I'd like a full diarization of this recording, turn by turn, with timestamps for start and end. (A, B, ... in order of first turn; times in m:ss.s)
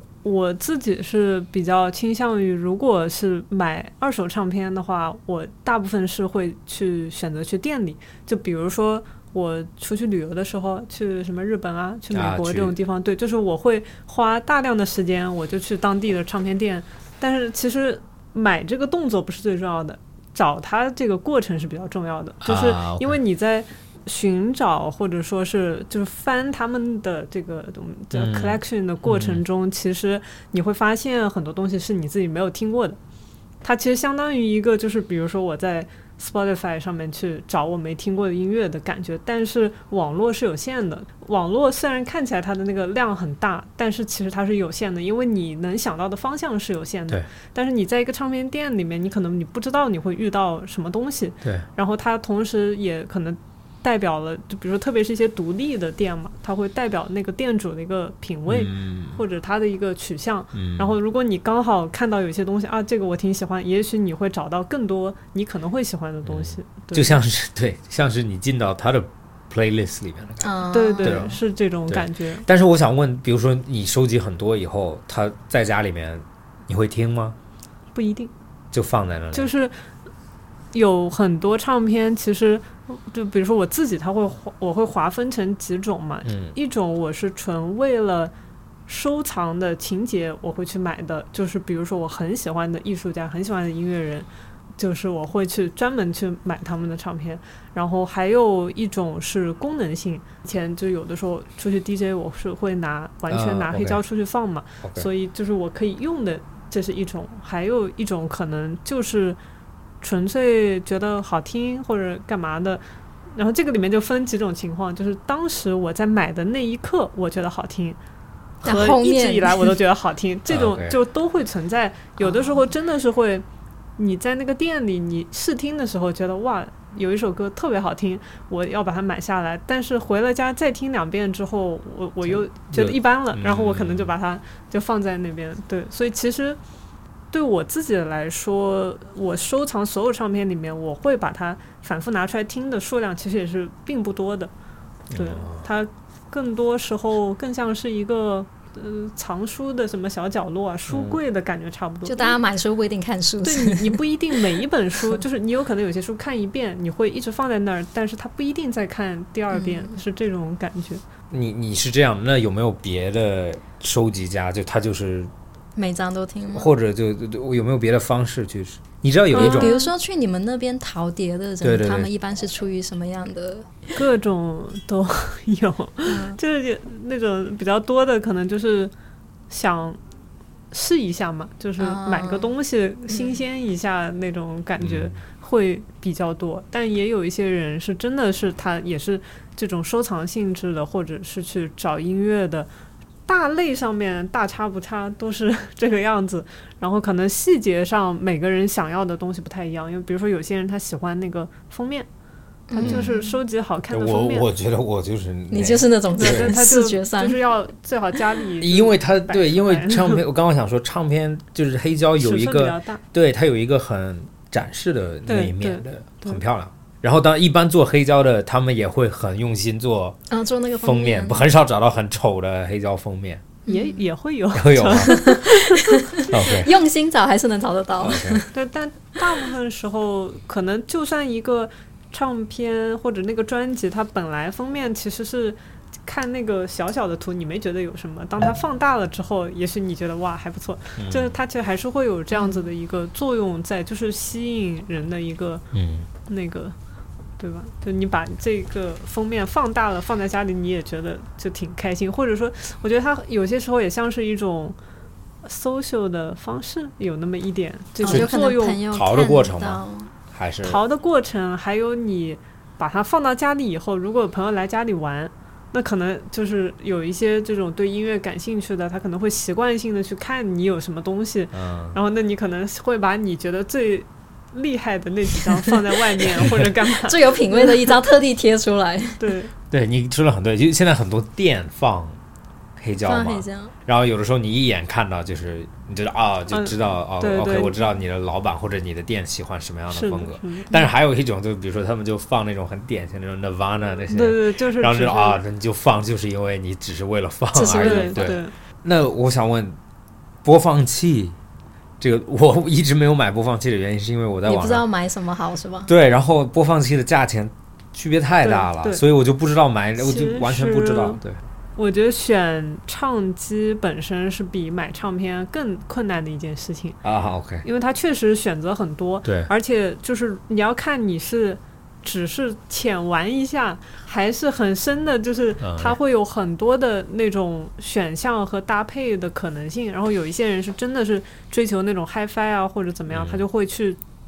0:00.2-0:33.0 A
0:12.1-0:12.7 B
0:22.4-0:23.2 B
0:28.1-0:29.4 B
0:33.6-1:07.2 A
0:58.5-0:59.2 B
1:00.5-1:00.9 B
1:06.2-1:10.5 B
1:10.4-1:11.4 C
1:10.7-1:12.4 A
1:11.0-1:17.4 B
1:17.9-1:18.3 A
1:18.7-1:19.5 B
1:19.3-1:19.7 A
1:20.7-1:28.3 A
1:26.2-1:26.6 B
1:28.9-1:34.3 A
1:34.8-1:49.4 A
1:43.3-1:44.0 B
1:50.0-1:52.8 A
1:53.3-1:58.0 A
1:58.6-2:03.4 A
1:58.6-1:59.7 C
2:00.5-2:01.0 B
2:02.2-2:02.7 C
2:04.0-2:16.6 A
2:12.2-2:14.1 B
2:17.3-2:24.5 A
2:25.1-2:25.6 B
2:25.1-2:32.4 A
2:30.9-2:31.2 B
2:32.0-2:34.0 C
2:33.4-2:41.0 A
2:39.5-2:40.0 C
2:41.3-2:45.3 B
2:45.8-2:46.7 C
2:46.5-2:49.7 B
2:49.3-2:49.9 A
2:49.3-2:53.8 C
2:51.6-2:52.1 B
2:54.0-2:58.9 A
2:56.0-2:56.4 C
2:59.5-3:00.0 A
3:00.7-3:12.7 A
3:01.8-3:02.5 C
3:03.1-3:03.4 C
3:04.8-3:05.2 B
3:13.3-3:22.1 A
3:22.7-3:23.4 C
3:22.7-3:24.5 A
3:22.8-3:23.1 B
3:23.9-3:26.5 B
3:25.5-3:27.4 C
3:26.2-3:30.2 A
3:28.6-3:40.2 B
3:32.2-3:33.0 A
3:35.2-3:36.4 A
3:40.3-3:41.5 C
3:40.8-3:43.4 B
3:43.6-3:46.6 A
3:43.7-3:44.0 C
3:44.5-3:45.2 B
3:45.0-3:45.9 C
3:46.3-3:46.7 B
3:46.5-3:48.5 C
3:48.0-3:48.4 B
3:48.5-4:05.6 A
4:01.0-4:01.3 B
4:02.3-4:02.6 C
4:05.7-4:06.1 B
4:06.2-4:06.8 A
4:07.4-4:14.8 A
4:15.4-4:18.8 A
4:18.0-4:20.1 C
4:18.0-4:18.3 B
4:18.9-4:20.8 B
4:20.6-4:37.9 A
4:31.5-4:32.0 B
4:36.4-4:36.7 B
4:37.0-4:39.2 C
4:39.2-4:39.5 A
4:39.7-4:42.2 B
4:42.8-4:59.8 B
4:43.0-4:43.7 C
4:46.5-4:47.7 A
4:49.9-4:50.7 A
4:54.1-4:55.4 A
4:57.5-4:58.3 C
4:57.7-4:58.5 A
5:00.4-5:01.4 B
5:02.0-5:04.8 B
5:04.4-5:05.9 C
5:05.9-5:11.4 B
5:08.4-5:09.0 A
5:10.0-5:11.2 A
5:11.8-5:17.0 A
5:17.0-5:17.6 B
5:17.6-5:34.0 A
5:19.2-5:19.5 B
5:25.6-5:26.0 B
5:33.1-5:33.4 B